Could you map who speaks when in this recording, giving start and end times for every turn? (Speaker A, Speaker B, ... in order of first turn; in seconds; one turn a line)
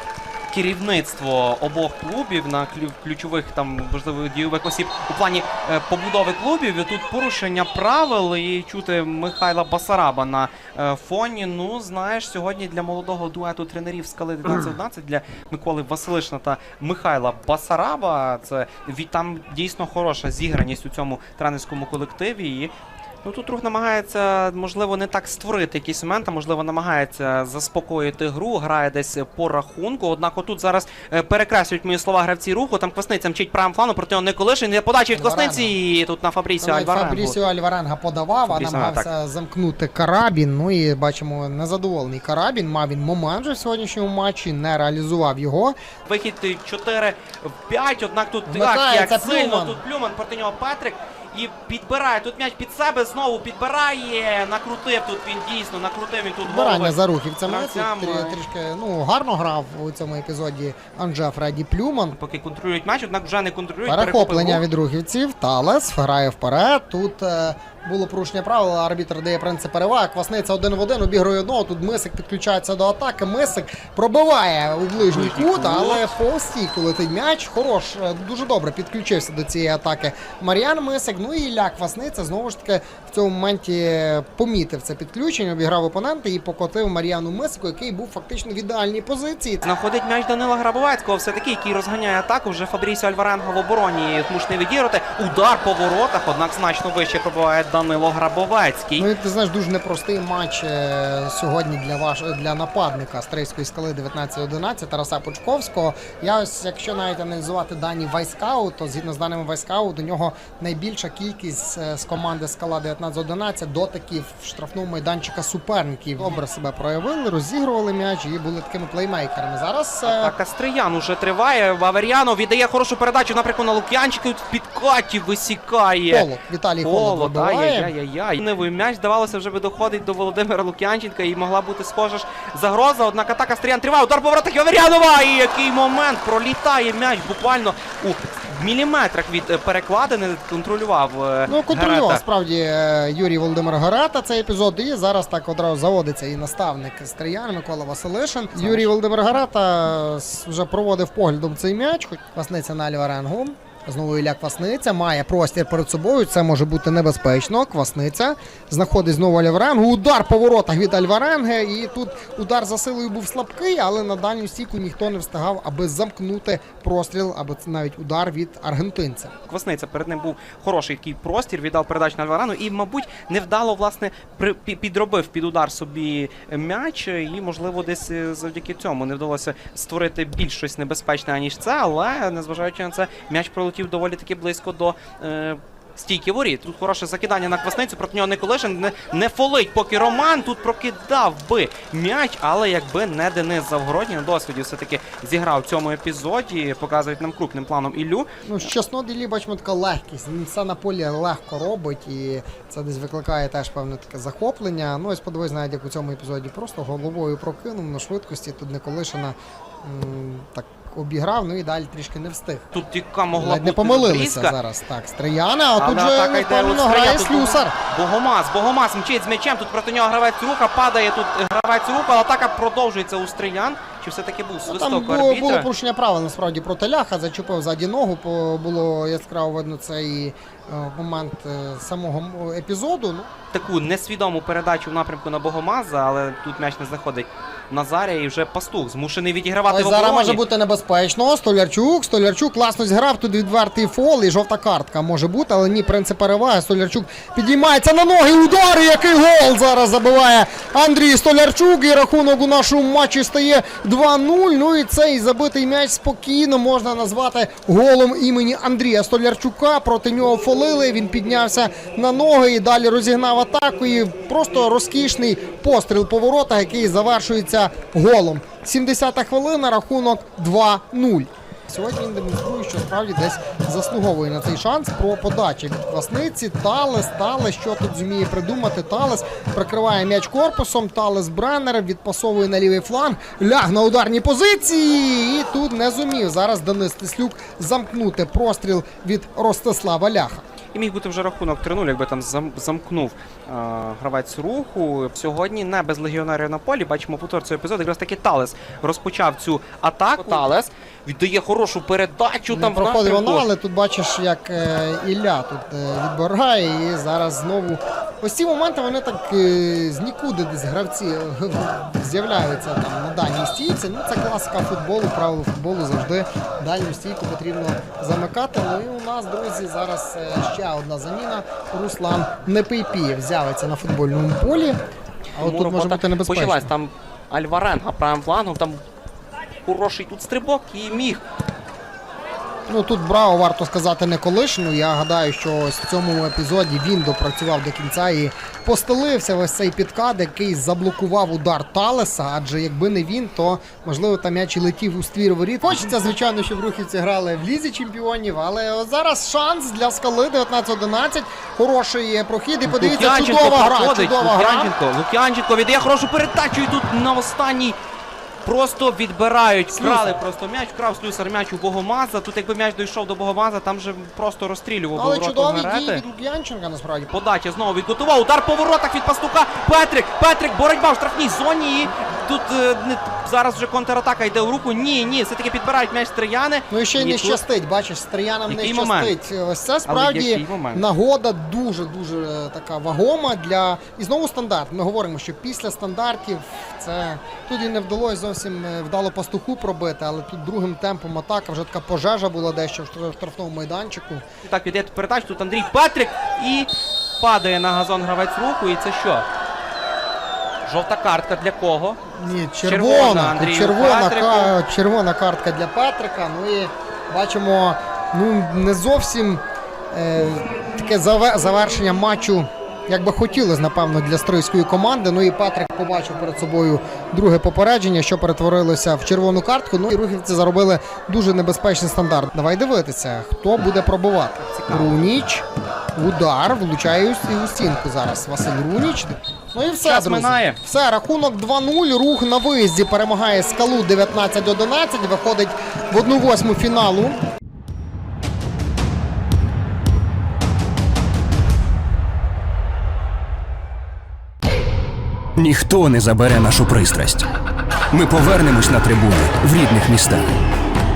Speaker A: 0.5-22.7
Speaker A: 23.2-37.4
Speaker B: 35.1-35.7
Speaker B: 36.6-45.8
Speaker A: 38.5-39.1
Speaker A: 46.0-58.4
Speaker B: 48.5-49.8
Speaker B: 56.4-62.2
Speaker A: 62.1-64.6
Speaker B: 63.9-89.6
Speaker A: 75.0-76.2
Speaker A: 89.6-99.1
Speaker B: 99.0-120.3
Speaker A: 120.0-126.3
Speaker B: 126.1-127.9
Speaker A: 126.8-142.2
Speaker B: 141.4-169.3
Speaker A: 148.6-148.9
Speaker A: 169.5-198.3
Speaker B: 198.4-212.7
Speaker A: 212.7-214.6
Speaker B: 213.3-217.7
Speaker A: 215.8-225.7
Speaker B: 224.7-233.3
Speaker A: 233.5-240.4
Speaker B: 239.7-290.4
Speaker A: 290.7-303.5
Speaker B: 302.5-324.8
Speaker B: 325.4-326.7
Speaker A: 325.4-328.8
Speaker A: 329.6-331.2
Speaker B: 332.7-354.7
Speaker A: 352.6-357.8
Speaker A: 358.4-366.0
Speaker B: 359.7-360.2
Speaker B: 364.9-367.1
Speaker A: 367.1-377.4
Speaker B: 376.7-394.2
Speaker A: 378.5-379.1
Speaker A: 379.9-380.8
Speaker A: 394.4-399.2
Speaker A: 400.6-402.0
Speaker B: 402.1-437.2
Speaker A: 402.6-404.5
Speaker A: 424.4-425.0
Speaker A: 429.8-430.6
Speaker C: 445.4-447.3
Speaker C: 447.9-450.3